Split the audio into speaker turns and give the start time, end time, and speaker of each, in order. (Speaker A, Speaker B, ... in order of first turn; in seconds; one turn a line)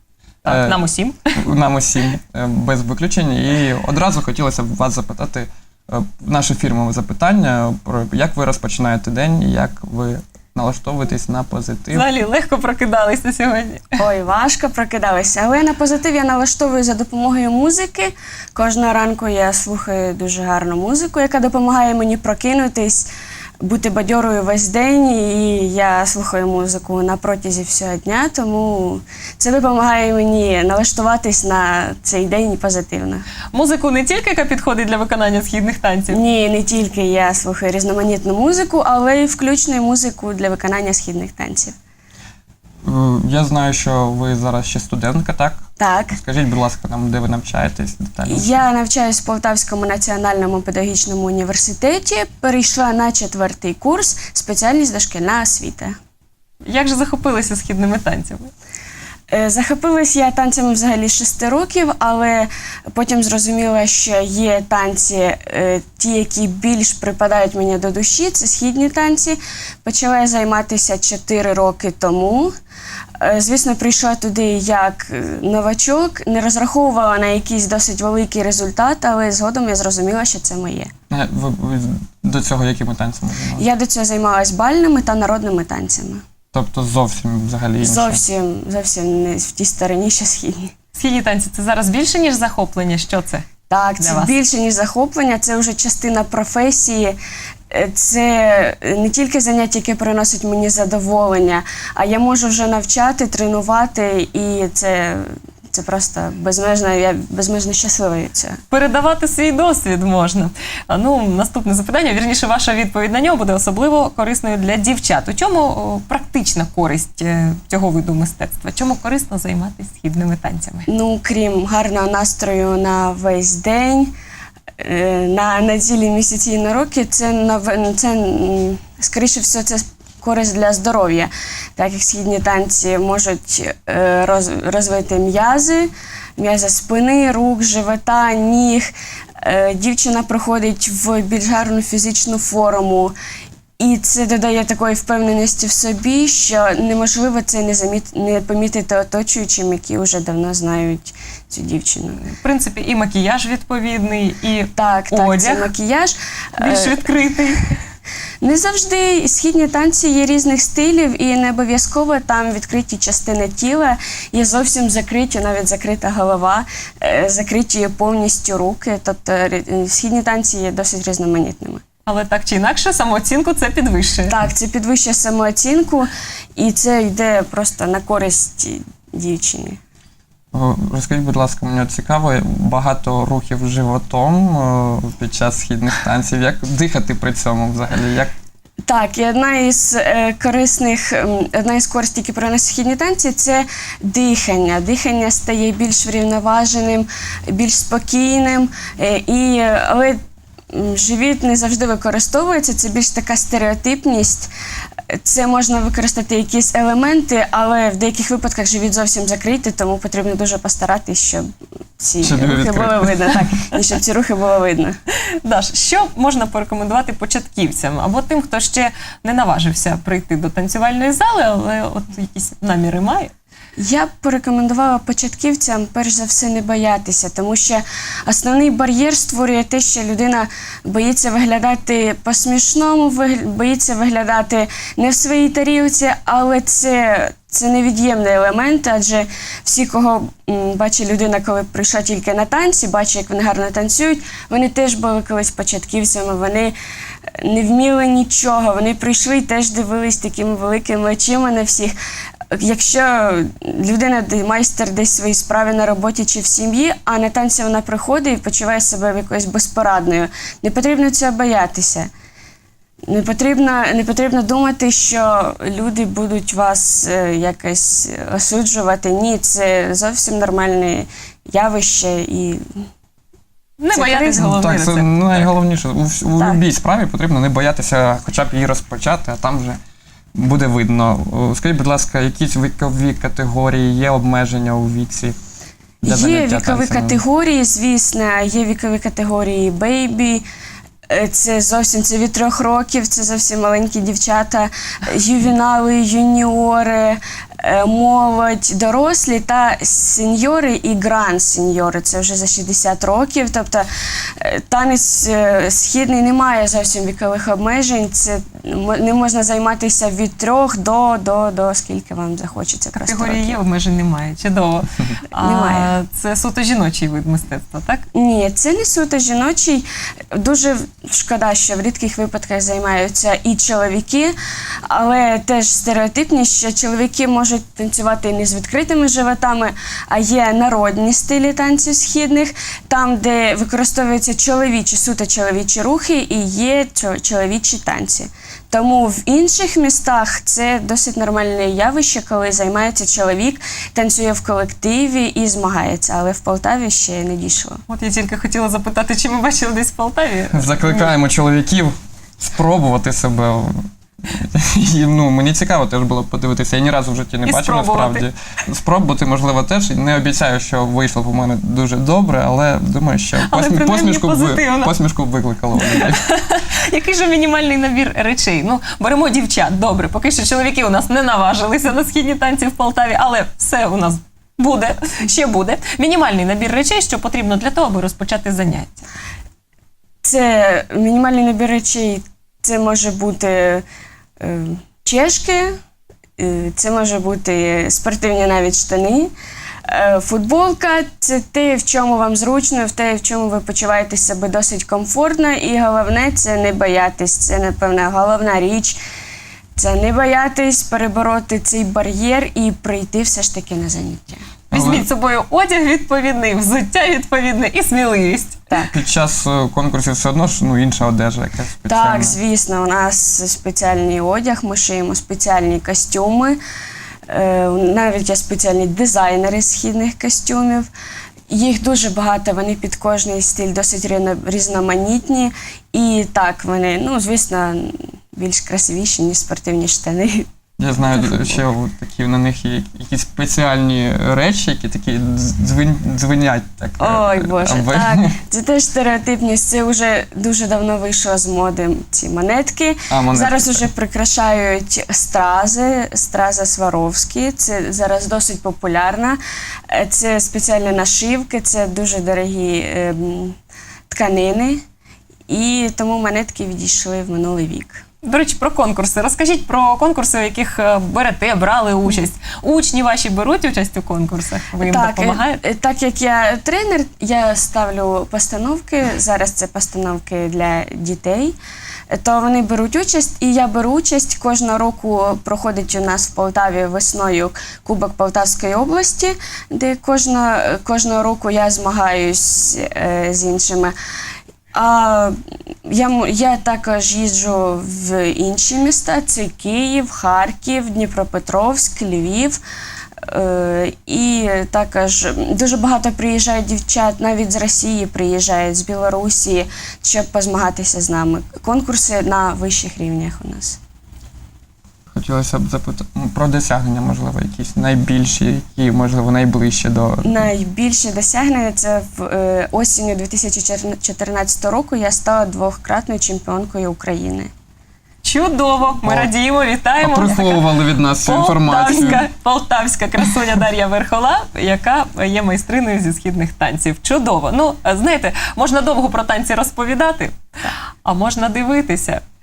Speaker A: 0.4-1.2
Speaker B: 0.5-0.8
Speaker B: 1.4-12.1
Speaker A: 11.9-14.0
Speaker C: 14.0-23.1
Speaker C: 23.6-33.2
Speaker A: 33.5-36.2
Speaker C: 36.1-41.8
Speaker B: 42.8-45.6
Speaker C: 45.8-46.2
Speaker B: 46.2-48.6
Speaker C: 48.3-56.0
Speaker A: 56.7-58.5
Speaker C: 59.3-72.5
Speaker C: 73.2-80.9
Speaker B: 81.1-83.7
Speaker C: 83.6-86.2
Speaker B: 86.5-88.2
Speaker C: 87.8-90.7
Speaker A: 91.0-93.5
Speaker C: 93.7-97.2
Speaker A: 94.0-94.3
Speaker C: 97.7-108.6
Speaker A: 108.7-120.9
Speaker C: 120.9-124.1
Speaker C: 124.8-143.2
Speaker C: 143.8-152.3
Speaker A: 152.3-155.7
Speaker C: 154.8-157.1
Speaker A: 156.6-157.8
Speaker C: 158.4-171.8
Speaker A: 172.1-174.3
Speaker C: 174.3-179.8
Speaker B: 180.5-188.3
Speaker C: 188.8-200.2
Speaker C: 200.7-204.5
Speaker C: 205.1-211.5
Speaker C: 212.0-215.0
Speaker B: 212.2-213.5
Speaker A: 215.4-223.3
Speaker C: 223.8-246.8
Speaker C: 247.4-251.9
Speaker C: 252.5-262.1
Speaker C: 263.1-272.9
Speaker A: 273.8-275.5
Speaker C: 273.9-274.5
Speaker B: 274.4-279.8
Speaker B: 280.4-285.4
Speaker C: 286.0-290.4
Speaker B: 286.0-287.2
Speaker C: 291.1-303.9
Speaker C: 304.4-313.6
Speaker A: 312.9-318.0
Speaker C: 315.4-315.9
Speaker C: 318.1-324.3
Speaker C: 324.9-347.8
Speaker A: 347.9-351.1
Speaker B: 350.5-366.2
Speaker A: 357.5-358.3
Speaker A: 363.4-364.9
Speaker A: 365.8-379.1
Speaker C: 380.2-383.8
Speaker C: 384.4-385.8
Speaker C: 386.4-389.3
Speaker C: 389.9-399.0
Speaker C: 399.8-404.4
Speaker B: 404.7-405.1
Speaker A: 404.7-408.7
Speaker B: 408.9-412.4
Speaker C: 411.9-416.6
Speaker C: 417.3-420.9
Speaker C: 421.5-431.6
Speaker B: 430.8-438.4
Speaker C: 437.0-449.4
Speaker B: 443.1-443.8
Speaker C: 449.9-453.6
Speaker C: 454.1-454.8
Speaker C: 455.5-458.0
Speaker A: 458.2-465.6
Speaker C: 464.8-471.6
Speaker C: 472.1-483.9
Speaker C: 484.7-492.6
Speaker C: 493.2-503.8
Speaker B: 505.1-510.4
Speaker C: 510.2-517.5
Speaker A: 518.2-530.3
Speaker B: 519.0-519.3
Speaker B: 520.0-522.3
Speaker A: 531.0-532.2